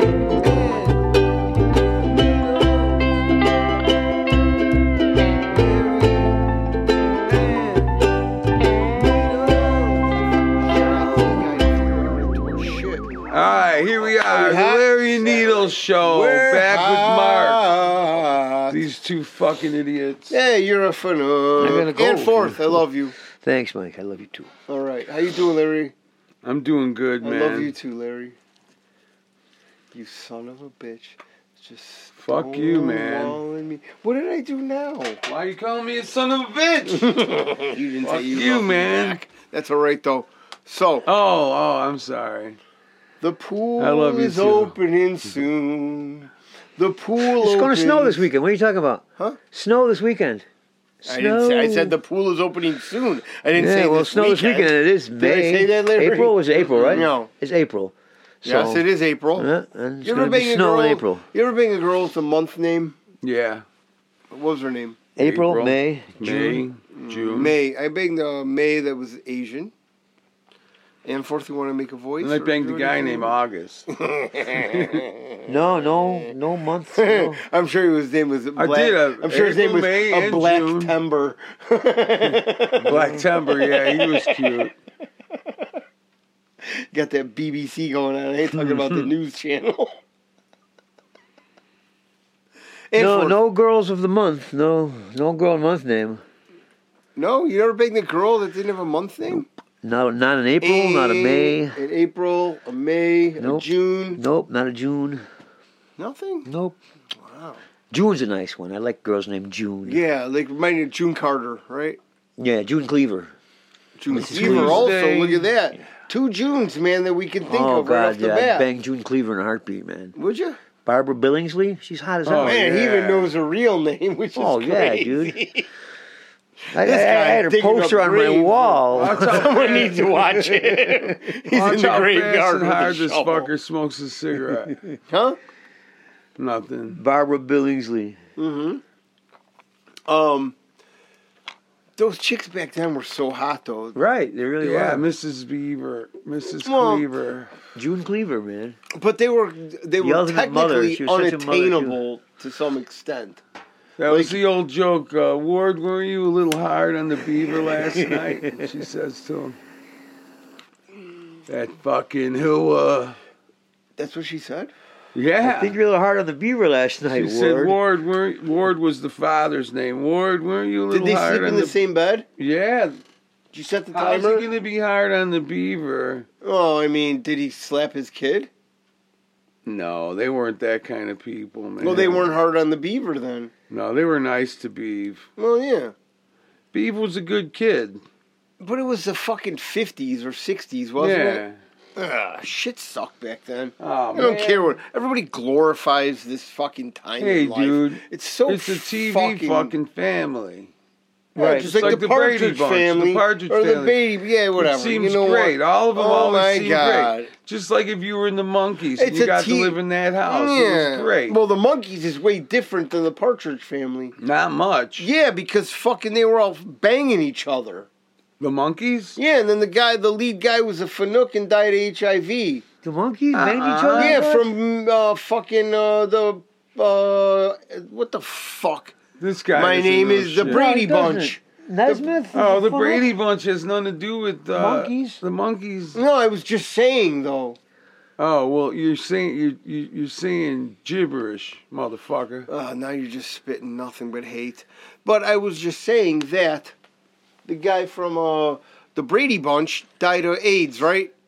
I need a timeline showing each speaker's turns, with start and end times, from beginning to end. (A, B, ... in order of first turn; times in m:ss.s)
0:00.4-0:01.0 A
0:01.9-0:03.0 A
0:05.4-0:06.4 A
0:07.2-0:08.0 A
0:08.9-0:13.2 A
0:13.3-0:17.7 B
0:14.0-0:18.8 A
0:18.7-0:20.4 B
0:20.3-0:23.1 A
0:21.6-0:22.8 C
0:23.4-0:24.5 C
0:24.7-0:25.9 A
0:26.4-0:27.7 B
0:27.2-0:28.4 A
0:29.9-0:35.2 A
0:32.2-0:33.4 B
0:35.2-0:37.2 B
0:36.9-0:41.1 A
0:38.0-0:39.2 B
0:41.0-0:42.6 B
0:43.2-0:48.2 A
0:43.8-0:44.7 B
0:47.4-0:50.4 C
0:51.0-0:51.9 C
0:51.1-0:57.3 A
0:53.6-0:57.9 C
0:56.5-0:57.1 B
0:58.4-0:58.8 C
0:58.4-0:59.5 A
0:59.4-1:01.2 C
1:00.0-1:03.0 A
1:03.2-1:03.6 B
1:04.3-1:05.0 A
1:05.2-1:06.6 C
1:05.2-1:07.5 B
1:06.9-1:09.7 A
1:11.0-1:13.3 A
1:12.2-1:13.9 B
1:13.9-1:16.3 A
1:14.7-1:15.0 B
1:15.5-1:17.4 C
1:17.0-1:24.7 A
1:18.6-1:21.0 B
1:22.8-1:24.7 B
1:26.6-1:29.9 A
1:32.9-1:33.4 A
1:33.0-1:36.2 C
1:37.2-1:39.5 A
1:39.8-1:41.8 C
1:40.6-1:44.2 A
1:43.4-1:45.2 C
1:46.0-1:46.5 A
1:46.4-1:46.8 C
1:47.2-1:47.6 A
1:47.9-1:50.0 C
1:49.8-1:52.0 A
1:52.4-1:53.3 C
1:54.0-1:58.7 A
1:54.1-1:55.0 C
1:54.2-1:55.4 B
1:57.5-2:00.1 C
2:00.1-2:00.6 A
2:00.8-2:02.6 C
2:02.2-2:03.3 B
2:02.4-2:05.7 A
2:04.4-2:05.4 C
2:06.7-2:09.4 C
2:06.7-2:13.5 A
2:08.9-2:10.6 B
2:11.5-2:14.8 B
2:15.1-2:15.4 A
2:16.4-2:17.0 B
2:16.9-2:18.2 C
2:18.4-2:18.8 A
2:20.1-2:20.6 A
2:22.0-2:24.0 A
2:23.9-2:25.0 C
2:24.6-2:27.5 B
2:26.6-2:27.0 A
2:27.7-2:28.8 C
2:28.9-2:33.4 A
2:30.0-2:32.0 C
2:34.0-2:39.6 B
2:34.1-2:34.4 A
2:41.5-2:43.2 B
2:44.0-2:44.7 A
2:45.1-2:45.8 B
2:45.4-2:47.8 C
2:47.1-2:51.7 B
2:50.9-2:52.2 A
2:52.4-2:53.0 B
2:53.5-2:54.5 A
2:53.9-2:56.2 B
2:56.4-2:58.5 A
2:59.6-3:02.3 B
3:01.8-3:03.5 A
3:03.7-3:05.3 B
3:05.4-3:05.9 A
3:06.7-3:08.0 B
3:08.6-3:11.4 A
3:11.0-3:11.6 B
3:12.0-3:19.7 A
3:13.8-3:14.7 B
3:17.2-3:20.7 B
3:21.4-3:21.7 C
3:21.4-3:27.3 A
3:21.5-3:24.0 B
3:24.6-3:31.4 B
3:29.0-3:34.1 A
3:34.2-3:35.1 B
3:35.0-3:37.9 A
3:38.4-3:39.2 B
3:39.2-3:42.6 A
3:42.8-3:44.5 C
3:43.3-3:44.2 B
3:43.9-3:49.0 A
3:49.2-3:50.6 B
3:49.5-3:52.2 A
3:50.4-3:53.1 C
3:52.3-3:56.0 B
3:54.6-3:55.2 C
3:55.9-3:57.6 A
3:58.2-4:02.5 B
4:02.5-4:06.7 A
4:07.4-4:11.1 A